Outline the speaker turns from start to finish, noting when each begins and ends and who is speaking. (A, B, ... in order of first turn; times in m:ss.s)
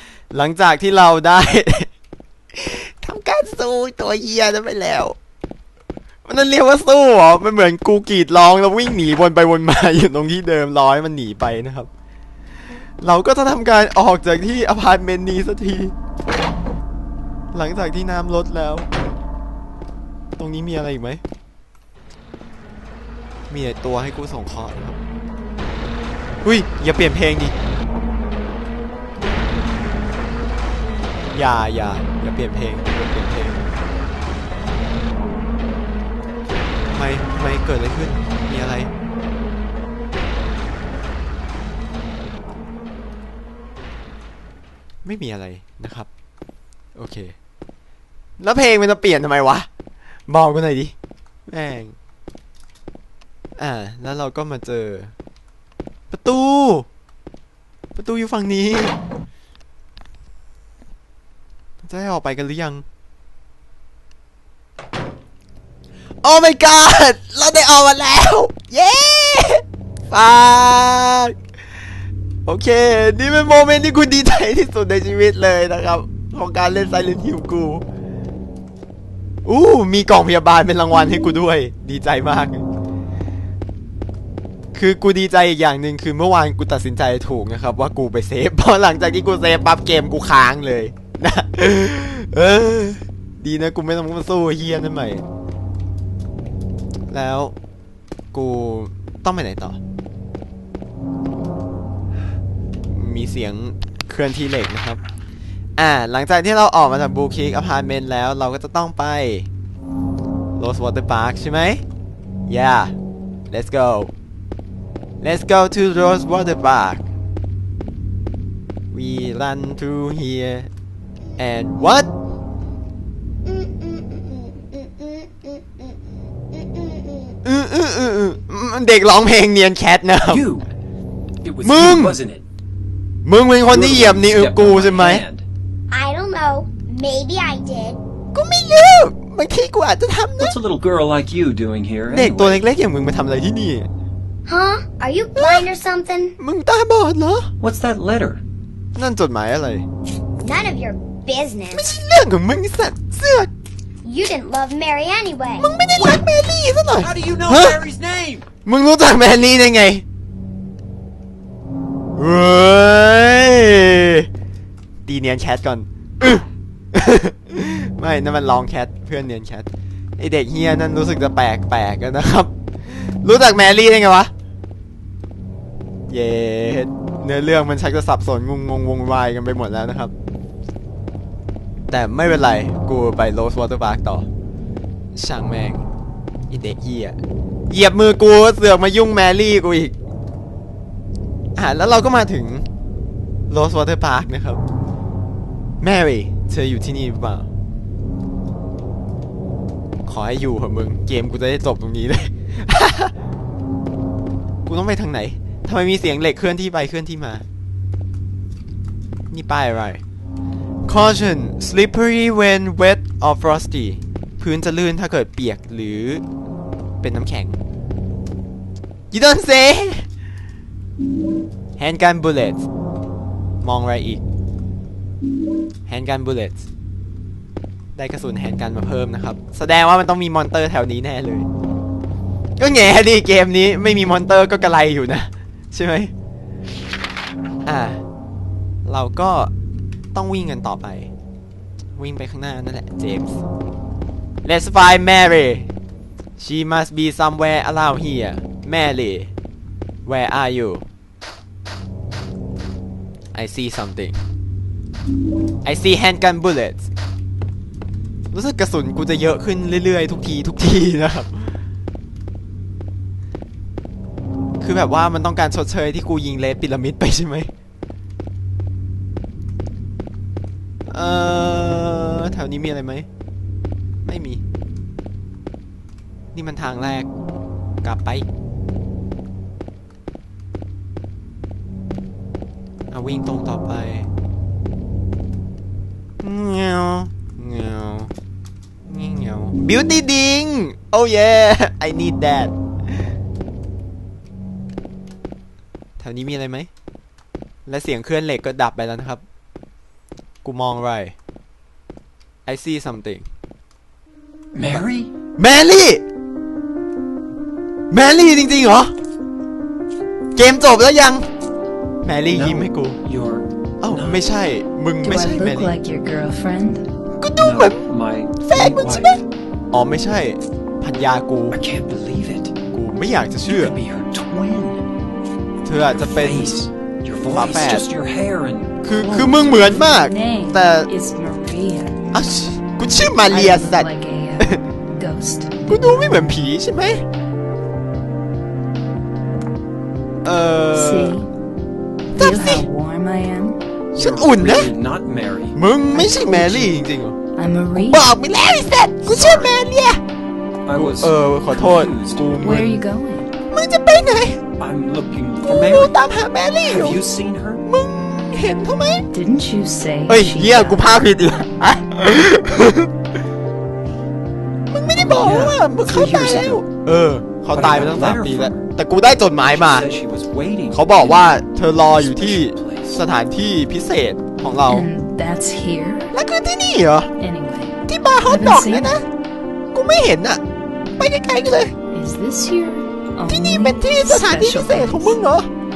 0:00.3-0:01.9 A
0:02.5-0:05.2 A
0:06.3-0:11.9 A
0:13.0-0:15.9 A
0:17.5-0:18.9 A
0:20.4-0:21.2 A
0:23.5-0:25.0 A
0:26.4-0:27.5 A
0:31.3-0:33.7 A
0:36.9-0:38.9 A
0:45.0-0:46.1 A
0:47.0-0:47.4 A
0:48.4-0:49.7 A
0:50.3-0:50.9 A
0:51.5-0:52.0 A
0:53.6-0:55.1 A
0:56.1-0:56.9 A
0:58.0-0:59.0 A
1:01.8-1:02.8 A
1:06.2-1:11.4 A
1:12.5-1:17.8 A
1:19.4-1:22.6 A
1:24.7-1:35.2 A
1:37.1-1:37.6 A
1:38.3-1:39.8 A
1:42.9-1:45.0 A
1:45.8-1:49.5 A
1:50.6-1:51.8 A
1:52.5-1:52.9 A
1:53.5-1:54.1 A
1:55.2-1:57.1 A
1:58.9-2:00.7 A
2:01.4-2:02.1 A
2:03.5-2:06.0 B
2:06.5-2:07.4 B
2:07.4-2:10.5 A
2:10.3-2:10.7 C
2:11.4-2:12.4 C
2:11.6-2:12.2 A
2:13.2-2:15.2 A
2:13.7-2:15.5 C
2:15.9-2:18.0 B
2:18.3-2:20.6 A
2:20.4-2:22.7 C
2:22.1-2:23.9 A
2:24.5-2:26.4 B
2:25.4-2:25.7 A
2:26.4-2:27.5 A
2:27.6-2:28.4 C
2:29.0-2:29.9 A
2:30.4-2:31.9 B
2:31.7-2:33.5 A
2:34.0-2:35.7 B
2:35.6-2:37.8 A
2:37.0-2:38.5 C
2:38.6-2:40.0 A
2:42.2-2:44.3 A
2:45.1-2:54.3 A
2:56.1-3:00.1 A
3:01.9-3:04.3 A
3:05.1-3:05.8 A
3:06.5-3:07.2 A
3:07.7-3:10.0 A
3:11.6-3:12.7 A
3:13.5-3:14.6 A
3:15.8-3:17.5 A
3:20.0-3:23.1 A
3:24.7-3:27.5 A
3:29.3-3:30.0 A
3:30.9-3:36.2 A
3:37.0-3:37.6 A
3:39.1-3:40.1 A
3:41.8-3:42.7 A
3:43.6-3:44.2 A
3:45.9-3:46.7 A
3:48.0-3:51.5 A
3:52.6-3:56.1 A
3:57.7-3:58.0 A
3:58.8-3:59.5 A
4:00.1-4:01.1 A
4:02.0-4:03.4 A
4:04.4-4:05.7 A
4:06.4-4:09.3 A
4:10.0-4:10.8 A
4:13.3-4:14.2 A
4:15.6-4:16.9 A
4:18.3-4:21.6 A
4:24.6-4:27.5 A
4:30.9-4:33.1 A
4:34.0-4:34.4 A
4:36.3-4:37.1 A
4:37.8-4:38.3 A
4:42.9-4:44.1 A
4:46.2-4:48.1 A
4:48.9-4:52.5 A
4:56.0-4:56.7 A
4:57.7-4:59.2 A
5:00.4-5:01.1 A
5:02.5-5:03.3 A
5:04.5-5:05.1 C
5:05.4-5:06.0 A
5:07.9-5:08.9 A
5:10.4-5:11.3 A
5:12.0-5:13.0 A
5:12.3-5:14.2 C
5:13.8-5:15.8 A
5:15.0-5:16.9 D
5:17.2-5:17.9 A
5:17.4-5:19.2 C
5:18.4-5:21.6 A
5:21.5-5:22.5 C
5:22.7-5:23.8 A
5:23.5-5:24.8 C
5:25.6-5:26.6 A
5:25.9-5:29.5 C
5:27.3-5:27.9 A
5:28.8-5:30.9 A
5:28.9-5:32.0 D
5:32.1-5:34.6 A
5:33.3-5:35.9 D
5:35.7-5:37.0 A
5:40.2-5:41.2 A
5:40.7-5:41.3 D
5:42.1-5:43.6 D
5:42.2-5:42.7 A
5:43.9-5:45.6 C
5:44.0-5:44.7 A
5:45.5-5:47.2 A
5:45.9-5:46.8 D
5:47.4-5:48.1 D
5:47.7-5:50.0 A
5:49.1-5:49.6 C
5:50.7-5:52.4 C
5:50.7-5:52.8 A
5:52.4-5:53.3 D
5:53.5-5:54.4 A
5:54.6-5:56.0 C
5:55.4-5:57.0 A
5:56.6-5:57.6 C
5:57.7-5:59.1 A
5:59.1-6:01.0 D
6:00.1-6:02.9 A
6:04.7-6:09.9 A
6:05.0-6:06.6 C
6:07.5-6:08.7 C
6:09.5-6:11.3 C
6:10.7-6:14.9 A
6:11.9-6:13.0 C
6:14.6-6:16.2 D
6:16.1-6:17.1 A
6:17.2-6:19.1 D
6:17.9-6:19.1 A
6:19.7-6:20.4 A
6:21.0-6:21.7 A
6:21.9-6:25.2 D
6:23.3-6:25.5 A